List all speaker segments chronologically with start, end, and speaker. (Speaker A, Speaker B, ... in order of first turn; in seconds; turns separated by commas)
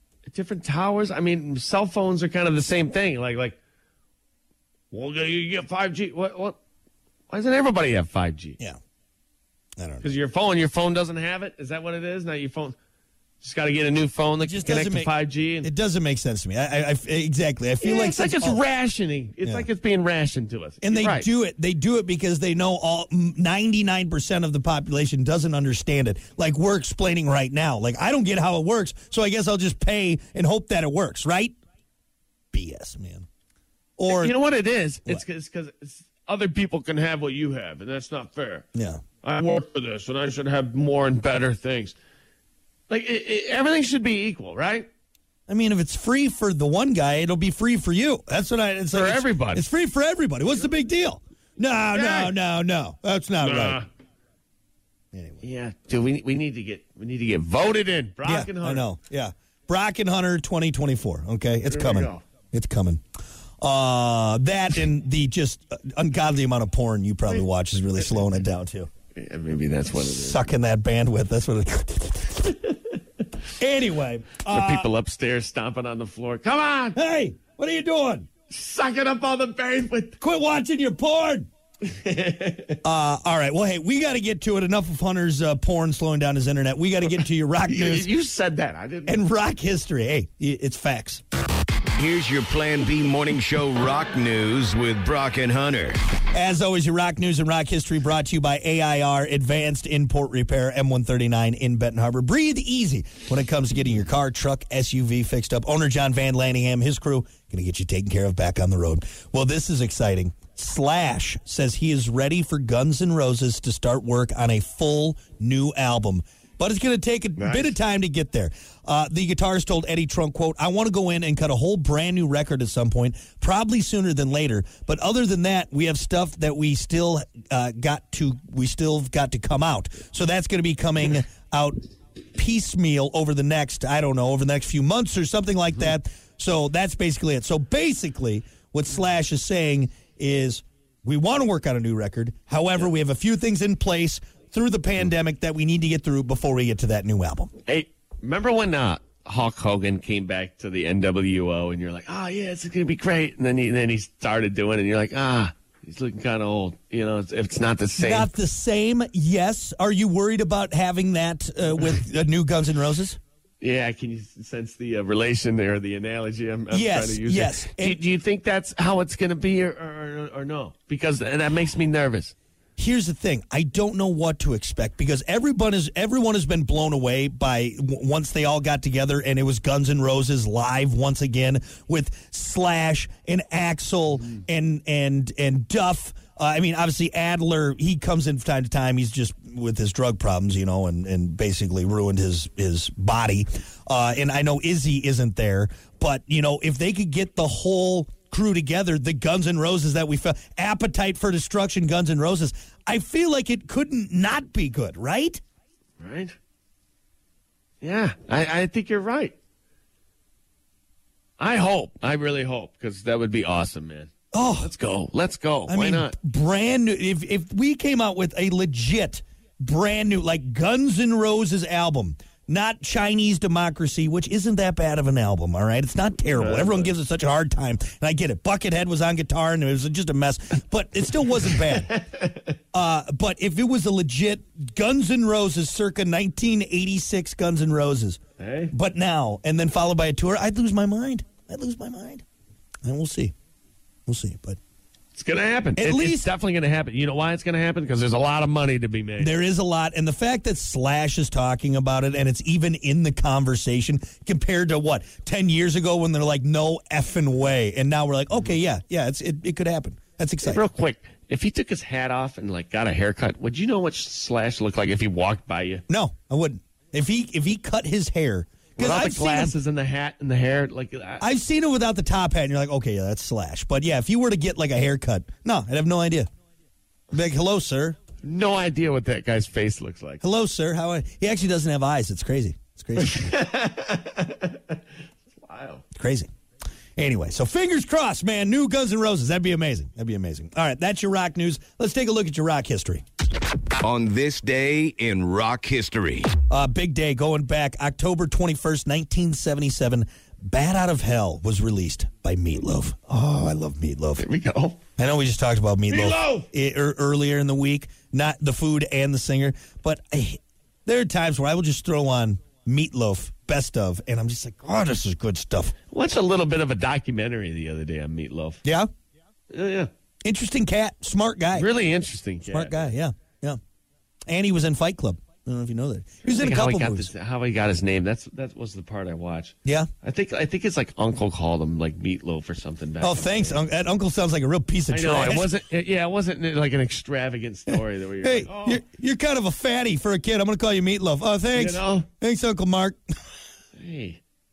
Speaker A: 0.3-3.6, Speaker A: 4.9-6.6, Speaker A: 7.3-8.6, Speaker B: 9.8-10.1, Speaker A: 10.0-12.8, Speaker A: 13.4-15.7, Speaker B: 14.4-18.6, Speaker A: 17.8-21.3, Speaker B: 20.8-31.6, Speaker B: 32.5-33.3, Speaker B: 34.0-34.3, Speaker A: 34.1-38.7, Speaker B: 38.7-39.0, Speaker A: 39.2-41.9, Speaker A: 42.9-44.9, Speaker B: 45.5-53.8, Speaker A: 48.9-49.6, Speaker A: 51.9-52.3, Speaker A: 53.4-53.9, Speaker B: 55.1-55.4, Speaker A: 55.4-58.9, Speaker B: 58.2-63.0, Speaker A: 61.6-62.2, Speaker B: 63.6-68.9, Speaker A: 69.1-70.4, Speaker B: 70.0-72.5, Speaker B: 73.6-74.9, Speaker A: 74.5-77.0, Speaker B: 76.9-78.3, Speaker A: 78.5-80.2, Speaker B: 80.2-81.5, Speaker A: 81.8-82.8, Speaker B: 82.8-88.1, Speaker A: 87.6-89.2, Speaker B: 89.1-91.2, Speaker C: 92.0-96.0, Speaker B: 96.3-131.8, Speaker A: 117.4-117.8, Speaker B: 132.3-147.5, Speaker A: 147.7-158.3, Speaker B: 158.0-163.2, Speaker A: 163.6-172.3, Speaker B: 166.7-168.0, Speaker B: 172.8-205.4, Speaker A: 206.0-206.3, Speaker A: 207.8-209.3, Speaker A: 211.4-216.1, Speaker B: 214.3-214.7, Speaker B: 215.7-231.9, Speaker A: 226.2-226.9, Speaker A: 231.7-232.4, Speaker B: 232.7-238.2, Speaker A: 238.4-238.7, Speaker B: 238.7-242.2, Speaker B: 242.8-243.3, Speaker B: 244.1-244.6, Speaker A: 245.1-249.3, Speaker B: 245.7-246.3, Speaker B: 249.2-260.6, Speaker A: 260.4-265.8, Speaker B: 265.9-269.5, Speaker A: 268.8-271.2, Speaker B: 271.2-276.3, Speaker B: 277.1-278.0, Speaker A: 278.2-280.2, Speaker B: 280.2-283.3, Speaker A: 283.0-284.8, Speaker A: 285.4-285.8, Speaker B: 285.9-286.3, Speaker B: 287.0-293.0, Speaker C: 293.8-296.4, Speaker B: 296.5-304.2, Speaker A: 304.2-304.8, Speaker B: 305.0-315.7, Speaker A: 305.9-306.5, Speaker A: 315.9-318.6, Speaker B: 318.6-318.9, Speaker A: 319.5-319.9, Speaker B: 320.2-321.7, Speaker A: 321.5-322.9, Speaker B: 322.5-323.6, Speaker B: 324.3-327.1, Speaker A: 326.3-333.7, Speaker B: 329.6-329.9, Speaker B: 333.0-335.5, Speaker A: 334.9-338.8, Speaker B: 337.7-343.0, Speaker A: 341.5-342.1, Speaker A: 343.8-344.2